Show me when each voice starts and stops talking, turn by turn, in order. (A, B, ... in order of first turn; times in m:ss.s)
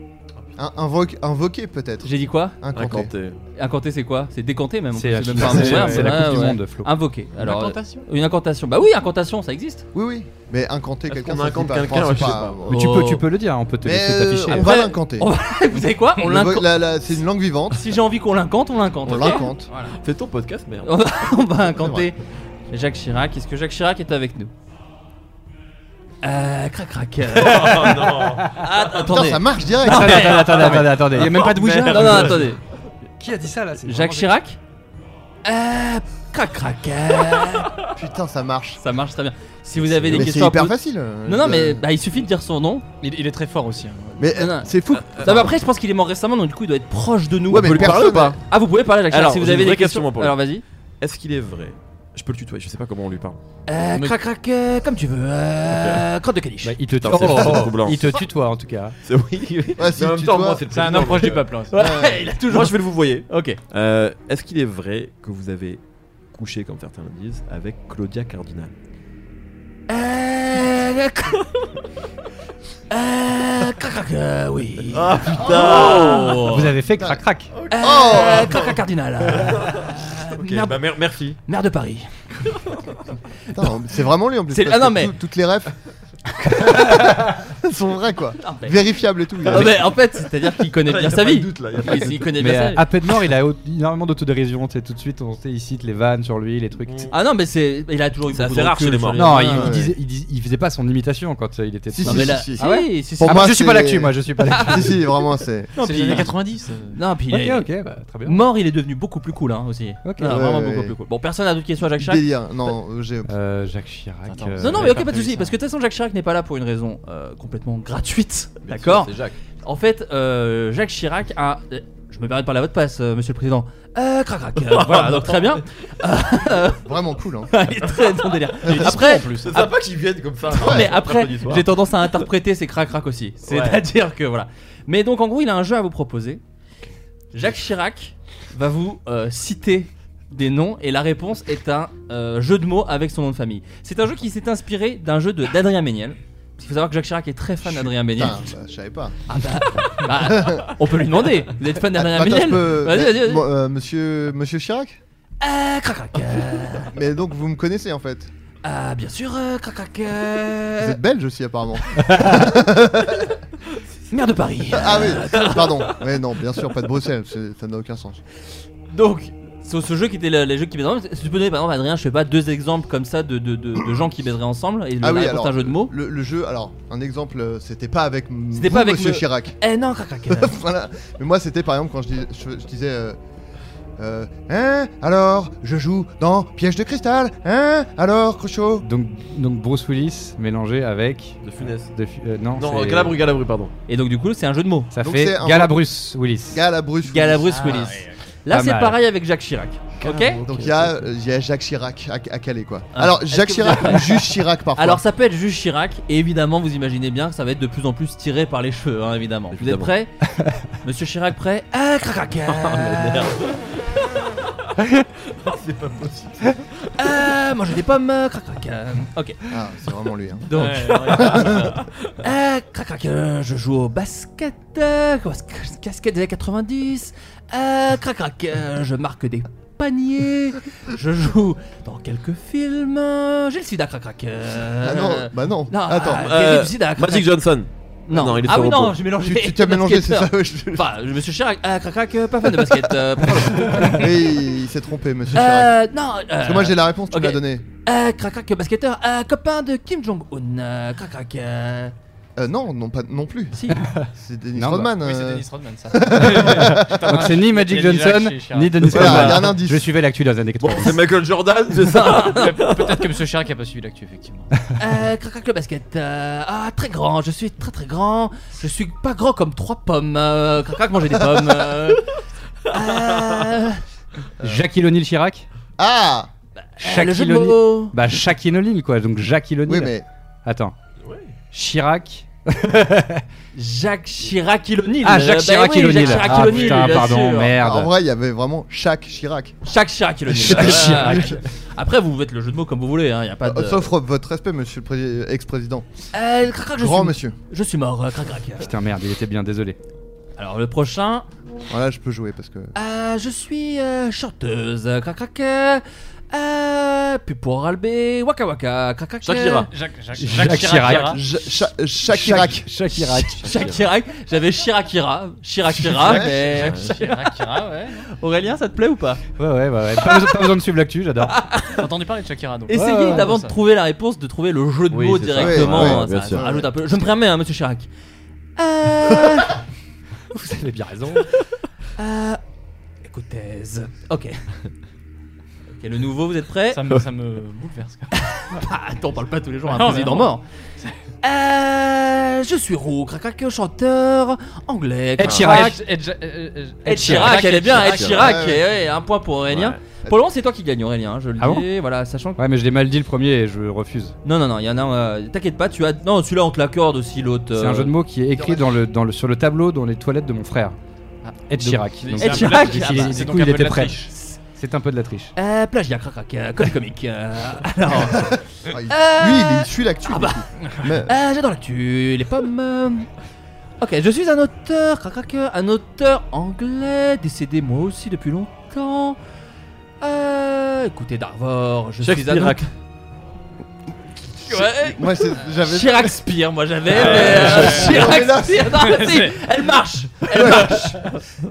0:00.6-0:03.1 A
0:02.0-0:02.6 B
0:02.7-0:03.4 C
0:03.6-0:09.8 B
0:04.9-0:06.9 D
0:05.4-0:06.4 E
0:07.4-0:08.0 E
0:09.9-0:13.0 A
0:11.1-0:13.0 C
0:12.7-0:13.2 B
0:12.7-0:14.8 D
0:13.8-0:15.3 A
0:14.5-0:16.9 B
0:16.2-0:17.8 A
0:17.7-0:20.0 B
0:19.0-0:19.7 A
0:19.9-0:21.2 C
0:20.8-0:22.2 B
0:21.8-0:22.1 A
0:22.7-0:24.5 B
0:26.2-0:32.6 B
0:27.3-0:28.6 C
0:29.0-0:30.6 A
0:29.8-0:32.4 D
0:30.5-0:32.5 C
0:31.2-0:32.2 E
0:33.2-0:34.4 D
0:33.8-0:34.6 B
0:35.4-0:37.7 B
0:37.9-0:38.8 A
0:38.8-0:42.8 B
0:39.8-0:40.3 C
0:40.1-0:41.8 A
0:43.0-0:44.3 E
0:44.2-0:45.6 A
0:44.2-0:50.6 B
0:45.0-0:45.5 C
0:47.5-0:48.4 A
0:47.5-0:48.4 C
0:49.0-0:50.4 C
0:51.0-0:53.4 C
0:53.7-0:56.8 B
0:55.6-0:56.0 C
0:56.6-0:59.0 D
0:56.9-0:58.2 C
0:59.0-1:01.6 C
0:59.8-1:00.6 A
1:00.7-1:01.8 E
1:01.7-1:03.6 B
1:01.8-1:02.3 A
1:02.4-1:08.7 C
1:09.9-1:11.4 B
1:12.9-1:16.7 B
1:14.8-1:16.6 C
1:16.4-1:17.5 D
1:16.9-1:17.2 A
1:17.5-1:21.4 C
1:17.7-1:20.8 B
1:17.8-1:18.6 A
1:21.4-1:22.1 B
1:23.5-1:25.7 A
1:24.5-1:25.1 B
1:26.6-1:26.9 B
1:26.7-1:29.8 A
1:28.4-1:28.8 B
1:29.4-1:32.8 B
1:29.4-1:30.1 C
1:30.6-1:32.3 C
1:32.4-1:37.1 D
1:36.8-1:37.1 C
1:37.1-1:39.7 B
1:38.3-1:39.7 C
1:39.1-1:44.9 D
1:39.5-1:39.9 A
1:41.9-1:42.7 A
1:42.0-1:43.5 B
1:43.2-1:45.7 A
1:44.5-1:44.8 B
1:45.8-1:46.3 B
1:45.8-1:47.0 E
1:46.9-1:47.7 B
1:47.3-1:48.4 D
1:48.2-1:52.3 B
1:50.0-1:50.4 D
1:50.2-1:50.9 A
1:52.0-1:53.3 A
1:53.3-1:55.1 D
1:54.3-1:55.5 E
1:54.6-1:59.1 B
1:58.6-1:59.4 C
1:59.6-2:06.8 B
2:04.6-2:05.6 C
2:06.7-2:07.5 A
2:07.5-2:09.4 B
2:08.6-2:09.7 E
2:08.8-2:11.8 C
2:10.5-2:16.4 B
2:10.6-2:10.9 A
2:13.4-2:13.8 C
2:17.3-2:28.4 B
2:27.6-2:29.2 A
2:29.3-2:33.5 B
2:30.1-2:30.7 A
2:31.9-2:35.0 A
2:35.4-2:36.9 B
2:36.9-2:38.3 A
2:38.6-2:41.0 B
2:40.8-2:43.3 A
2:42.0-2:42.3 B
2:44.1-2:46.0 B
2:44.7-2:48.2 A
2:48.9-2:55.9 B
2:55.0-2:59.6 A
2:58.5-3:00.6 B
3:00.3-3:03.2 A
3:04.0-3:08.8 A
3:08.8-3:13.2 D
3:11.4-3:12.0 C
3:12.5-3:13.7 C
3:13.9-3:14.9 B
3:14.9-3:16.6 D
3:15.0-3:15.8 A
3:16.5-3:17.9 A
3:17.0-3:20.4 B
3:17.5-3:18.1 E
3:18.5-3:19.0 D
3:20.0-3:20.9 C
3:20.4-3:25.0 A
3:22.9-3:30.1 B
3:29.5-3:29.9 C
3:30.8-3:33.4 B
3:32.4-3:34.0 C
3:35.3-3:36.7 C
3:37.0-3:39.4 B
3:39.5-3:40.5 A
3:40.5-3:41.5 B
3:40.5-3:41.8 E
3:41.0-3:41.8 C
3:42.2-3:57.3 B
3:54.8-3:56.3 A
3:56.0-3:59.1 C
3:58.1-4:04.1 B
3:59.2-4:00.9 A
4:03.8-4:05.8 A
4:05.3-4:11.9 B
4:06.4-4:07.6 A
4:12.4-4:13.6 A
4:13.5-4:13.8 B
4:14.0-4:14.9 D
4:14.1-4:17.3 A
4:15.0-4:19.3 E
4:16.3-4:21.1 D
4:18.9-4:19.5 C
4:18.9-4:19.9 A
4:20.6-4:22.9 C
4:21.8-4:22.6 B
4:22.1-4:24.5 E
4:24.8-4:32.0 B
4:32.7-4:33.8 B
4:33.0-4:33.4 C
4:34.4-4:35.4 D
4:35.8-4:36.3 A
4:36.6-4:38.0 B
4:36.8-4:39.9 D
4:39.7-4:40.0 A
4:40.4-4:40.7 D
4:41.0-4:41.3 C
4:41.5-4:43.2 D
4:43.5-4:47.6 B
4:45.0-4:47.9 D
4:46.0-4:46.5 E
4:46.4-4:46.9 C
4:47.6-4:49.6 A
4:49.6-4:53.9 B
4:50.4-4:51.4 A
4:50.4-4:51.4 D
4:53.4-4:55.9 A
4:56.1-4:58.7 B
4:56.8-4:57.4 A
4:58.6-4:59.8 D
5:00.4-5:01.3 B
5:01.7-5:02.7 A
5:02.7-5:09.7 B
5:09.2-5:09.7 C
5:09.7-5:11.2 E
5:10.2-5:11.2 D
5:10.9-5:12.7 A
5:12.1-5:13.5 D
5:12.9-5:17.3 B
5:13.4-5:13.9 C
5:15.9-5:16.5 A
5:16.1-5:17.0 C
5:16.2-5:18.1 E
5:18.1-5:19.2 B
5:19.4-5:21.4 D
5:21.3-5:21.8 B
5:21.8-5:23.6 E
5:22.7-5:27.9 B
5:22.7-5:23.3 D
5:24.9-5:26.6 C
5:25.4-5:26.7 A
5:28.6-5:29.6 B
5:30.3-5:31.2 D
5:32.0-5:32.4 B
5:33.0-5:34.4 B
5:35.8-5:36.8 B
5:36.7-5:38.1 E
5:38.1-5:40.4 B
5:39.7-5:41.0 E
5:41.2-5:45.8 B
5:45.2-5:45.8 D
5:45.3-5:48.3 E
5:46.8-5:52.4 B
5:46.9-5:47.5 D
5:47.6-5:48.4 C
5:48.1-5:48.6 A
5:49.5-5:49.8 C
5:51.4-5:51.7 D
5:52.4-5:54.1 D
5:54.2-5:57.9 B
5:57.5-6:00.8 D
6:01.2-6:04.1 E
6:01.5-6:05.3 D
6:02.2-6:03.4 B
6:04.1-6:04.4 B
6:05.3-6:13.1 B
6:08.1-6:11.1 A
6:13.8-6:19.2 B
6:20.0-6:22.6 B
6:22.0-6:22.7 C
6:24.4-6:31.1 B
6:24.4-6:26.2 A
6:26.9-6:27.9 C
6:27.2-6:28.7 A
6:27.3-6:29.4 E
6:30.3-6:30.9 A